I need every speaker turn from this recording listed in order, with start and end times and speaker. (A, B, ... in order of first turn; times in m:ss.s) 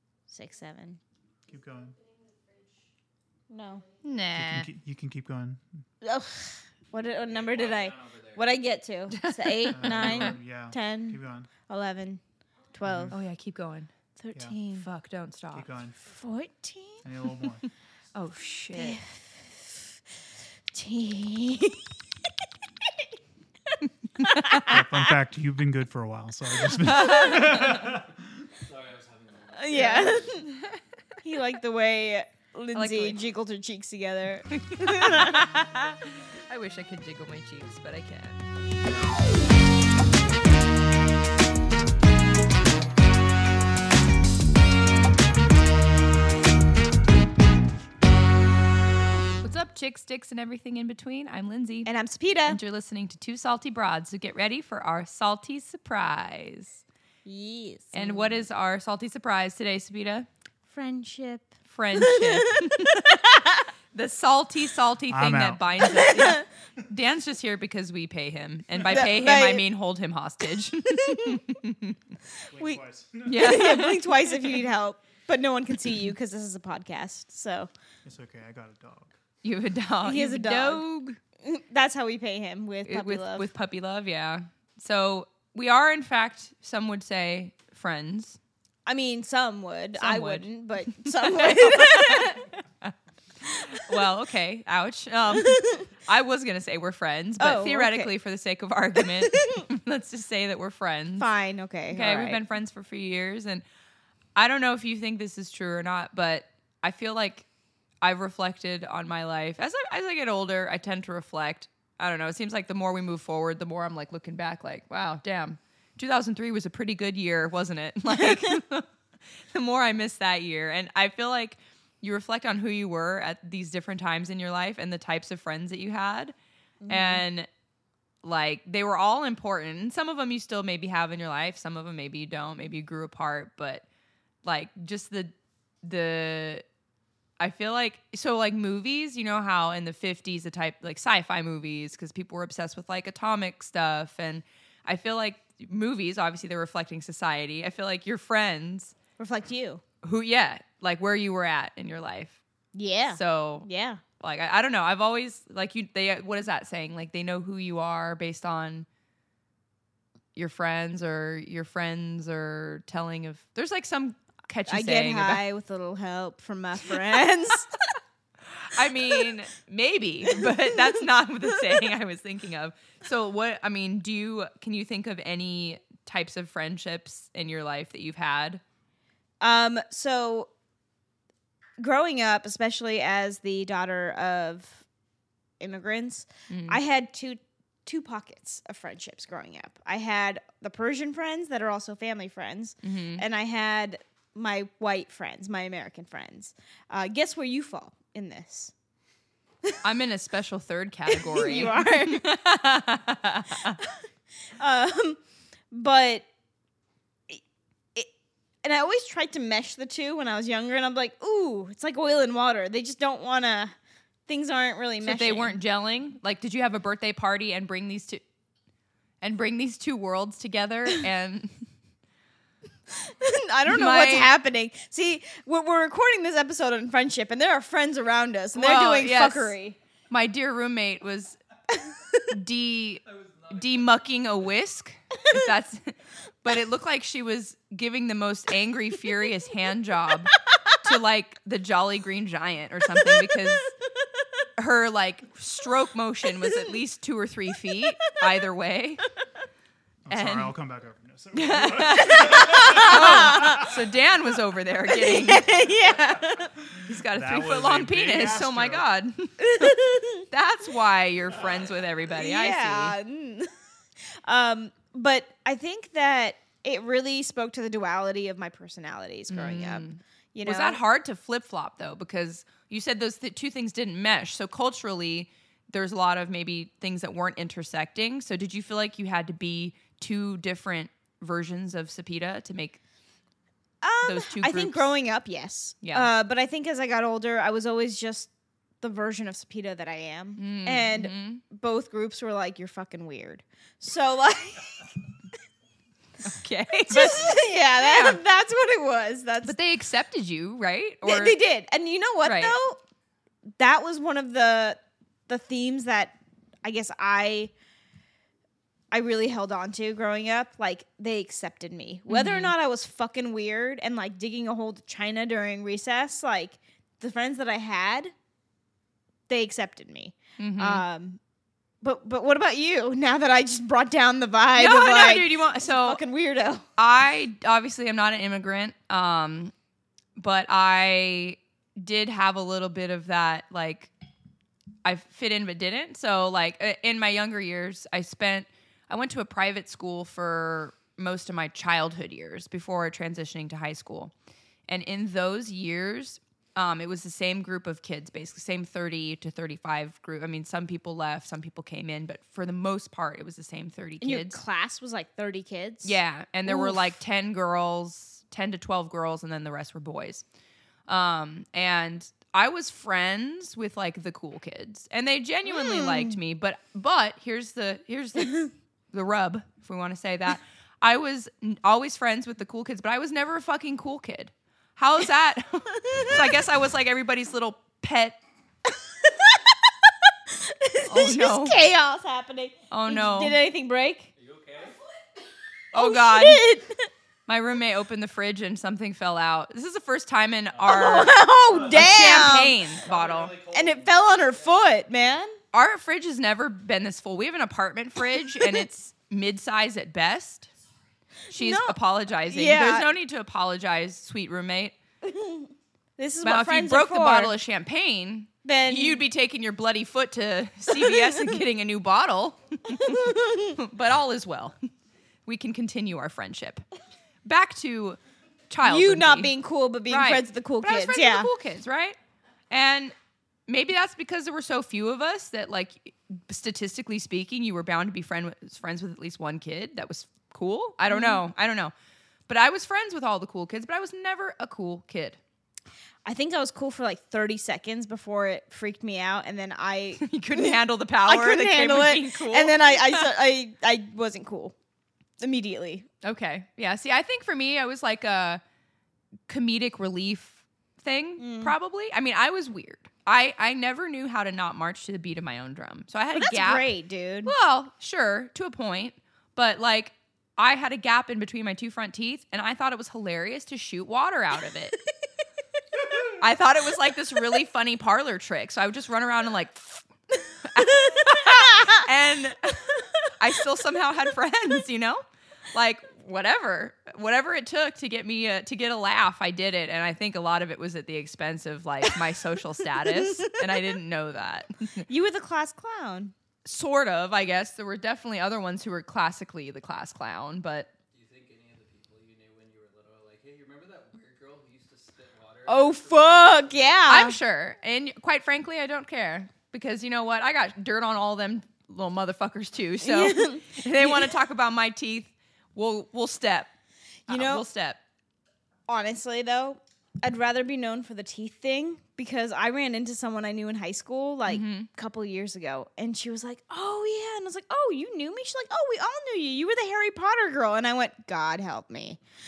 0:00.3-0:01.0 A
0:01.5-0:02.0 B
0:03.5-0:03.8 A
0:04.0-0:04.7 C
0:04.3-0:05.6 B
0:06.0-0:12.2 A
0:07.3-0:08.4 D
0:09.1-0:10.4 C
0:09.7-0:11.5 B
0:12.7-0:13.2 A
0:12.8-0:13.2 B
0:13.1-0:13.9 C
0:14.2-0:14.8 A
0:14.7-0:15.7 C
0:15.5-0:16.0 B
0:16.0-0:17.0 A
0:17.0-0:17.6 B
0:18.1-0:19.0 C
0:18.8-0:19.5 A
0:20.7-0:21.9 A
0:23.7-0:25.0 A
0:24.2-0:24.8 C
0:24.6-0:28.4 B
0:26.8-0:27.8 A
0:26.8-0:27.8 C
0:28.6-0:30.3 D
0:29.6-0:30.5 A
0:29.7-0:30.8 C
0:31.2-0:35.5 A
0:32.8-0:33.2 C
0:34.5-0:38.4 C
0:49.4-0:51.9 C
0:51.8-0:52.6 A
0:52.5-0:56.8 C
0:57.3-0:58.4 A
0:57.9-1:00.3 C
1:00.7-1:03.6 A
1:01.7-1:03.3 C
1:03.9-1:12.0 C
1:05.1-1:05.9 B
1:05.9-1:06.4 A
1:08.9-1:09.6 A
1:10.9-1:11.4 A
1:12.5-1:14.0 B
1:12.6-1:17.7 A
1:13.3-1:14.1 C
1:18.0-1:19.2 B
1:19.4-1:21.2 C
1:20.0-1:20.8 A
1:21.4-1:23.5 A
1:22.9-1:28.4 C
1:28.9-1:32.5 A
1:30.0-1:32.9 C
1:33.8-1:41.3 C
1:35.3-1:35.8 A
1:37.4-1:38.1 A
1:39.2-1:39.6 A
1:41.2-1:42.4 A
1:41.9-1:43.6 C
1:44.4-1:47.5 C
1:48.0-1:58.9 C
1:59.5-2:06.3 C
2:06.8-2:07.2 A
2:06.9-2:07.5 C
2:08.2-2:13.8 C
2:14.4-2:15.3 C
2:15.8-2:16.6 C
2:17.4-2:29.0 C
2:29.2-2:29.8 A
2:30.0-2:32.4 C
2:32.8-2:34.0 A
2:33.1-2:33.7 C
2:34.2-2:38.9 C
2:40.4-2:45.4 C
2:44.7-2:47.7 A
2:48.6-2:58.6 C
2:50.3-2:51.0 A
2:59.4-3:00.5 A
3:01.8-3:04.8 A
3:05.6-3:18.7 A
3:06.5-3:06.8 C
3:12.8-3:13.2 C
3:19.8-3:23.8 C
3:21.1-3:22.2 A
3:24.6-3:25.2 A
3:25.7-3:26.3 A
3:28.6-3:33.8 A
3:34.3-3:35.5 A
3:35.0-3:38.2 C
3:39.2-3:41.7 C
3:42.9-3:49.8 A
3:43.7-3:44.3 C
3:48.6-3:49.6 C
3:50.1-3:51.4 C
3:51.7-3:52.2 A
3:52.3-4:03.8 C
3:53.2-3:53.6 D
4:04.6-4:09.1 C
4:06.4-4:06.7 A
4:10.1-4:13.8 B
4:10.1-4:10.5 C
4:11.3-4:15.5 C
4:12.1-4:13.7 A
4:14.9-4:16.5 A
4:16.7-4:18.9 B
4:16.9-4:23.0 C
4:19.4-4:20.2 A
4:22.1-4:23.5 A
4:24.2-4:30.8 A
4:29.3-4:42.8 C
4:43.8-4:54.8 A
4:44.0-4:44.9 C
4:45.8-4:46.1 C
4:50.4-4:51.4 C
4:56.2-4:58.2 C
4:56.9-4:59.6 A
4:59.4-5:01.4 C
5:01.0-5:02.8 A
5:02.2-5:02.6 C
5:03.6-5:07.5 A
5:08.9-5:18.1 A
5:12.1-5:12.5 C
5:19.3-5:21.2 A
5:20.4-5:20.8 C
5:21.8-5:26.6 A
5:24.6-5:26.0 C
5:26.8-5:29.5 C
5:30.2-5:33.9 C
5:34.8-5:44.1 C
5:44.7-5:54.4 C
5:54.0-5:56.8 A
5:55.8-6:00.2 C
6:00.9-6:18.2 C
6:05.5-6:06.2 A
6:15.8-6:16.2 A
6:18.7-6:24.1 A
6:20.9-6:21.6 C
6:22.7-6:23.4 C
6:24.2-6:24.8 D
6:25.7-6:26.4 C
6:25.7-6:26.9 A
6:27.3-6:31.2 C
6:30.5-6:34.6 D
6:30.6-6:32.6 A
6:31.7-6:33.4 C
6:33.5-6:35.4 A
6:35.5-6:40.5 C
6:38.4-6:38.6 A
6:41.3-6:41.8 A
6:41.3-6:44.7 C
6:42.3-6:42.9 A
6:45.0-6:47.3 A
6:46.2-6:54.6 C
6:48.4-6:49.0 A
6:50.7-6:51.3 A
6:52.7-6:53.6 A
6:55.3-6:56.6 C
6:57.2-6:58.0 C
6:58.5-6:59.3 C
6:58.6-7:01.3 A
6:59.9-7:02.0 C
7:02.5-7:02.9 C
7:03.5-7:11.7 C
7:10.9-7:11.2 A
7:12.3-7:15.2 C
7:16.1-7:24.5 A
7:20.0-7:23.1 C
7:25.2-7:25.9 A
7:26.0-7:28.4 C
7:29.3-7:36.7 C
7:31.2-7:31.5 A
7:36.2-7:37.3 A
7:37.2-7:44.8 C
7:46.1-7:49.8 C
7:50.4-7:55.0 C
7:50.6-7:51.8 A
7:55.5-8:04.9 C
8:03.0-8:03.4 A
8:04.9-8:06.1 A
8:06.4-8:10.7 C
8:10.9-8:16.9 D
8:15.5-8:17.2 A
8:16.9-8:26.5 C
8:22.8-8:24.1 A
8:27.1-8:27.4 A
8:27.1-8:27.8 C
8:28.7-8:42.0 A
8:34.3-8:34.7 C